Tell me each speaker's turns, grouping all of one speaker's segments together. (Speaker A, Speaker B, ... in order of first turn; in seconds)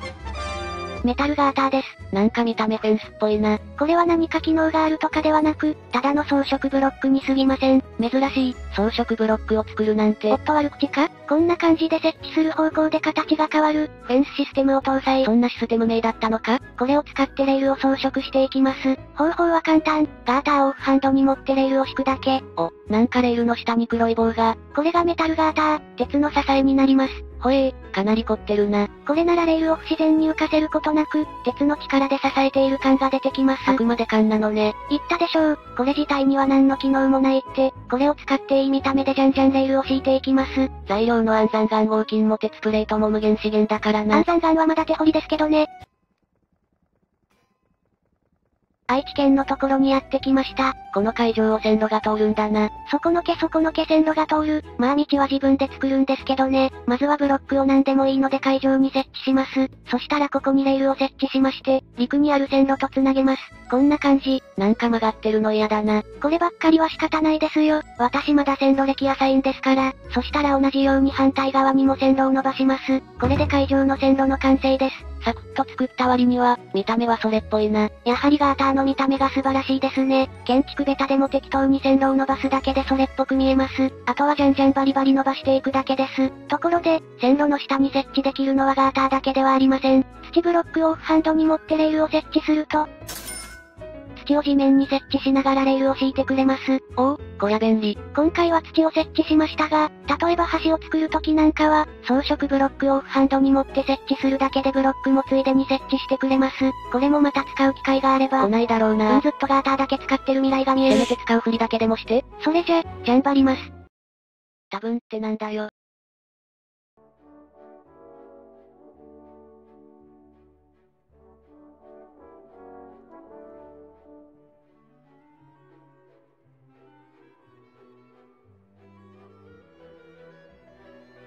Speaker A: 1.0-2.2, 3.6-8.1, 10.3-15.3, 16.5-22.6, 24.6-27.5, 28.9-33.8, 34.9-40.9, 44.1-45.7, 48.9-51.0, 52.7-64.6, 66.0-76.2, 77.9-92.9, 94.2-97.3, 97.9-108.5, 109.1-111.2, 112.2-113.7
Speaker B: 2.1-3.6, 8.1-10.3, 15.3-16.6, 22.6-24.6, 27.4-28.9, 33.7-34.8, 40.9-44.2, 51.0-52.7, 64.6-66.1, 76.0-77.9, 97.1-98.0, 108.4-109.2, 111.0-112.2, 114.7-115.7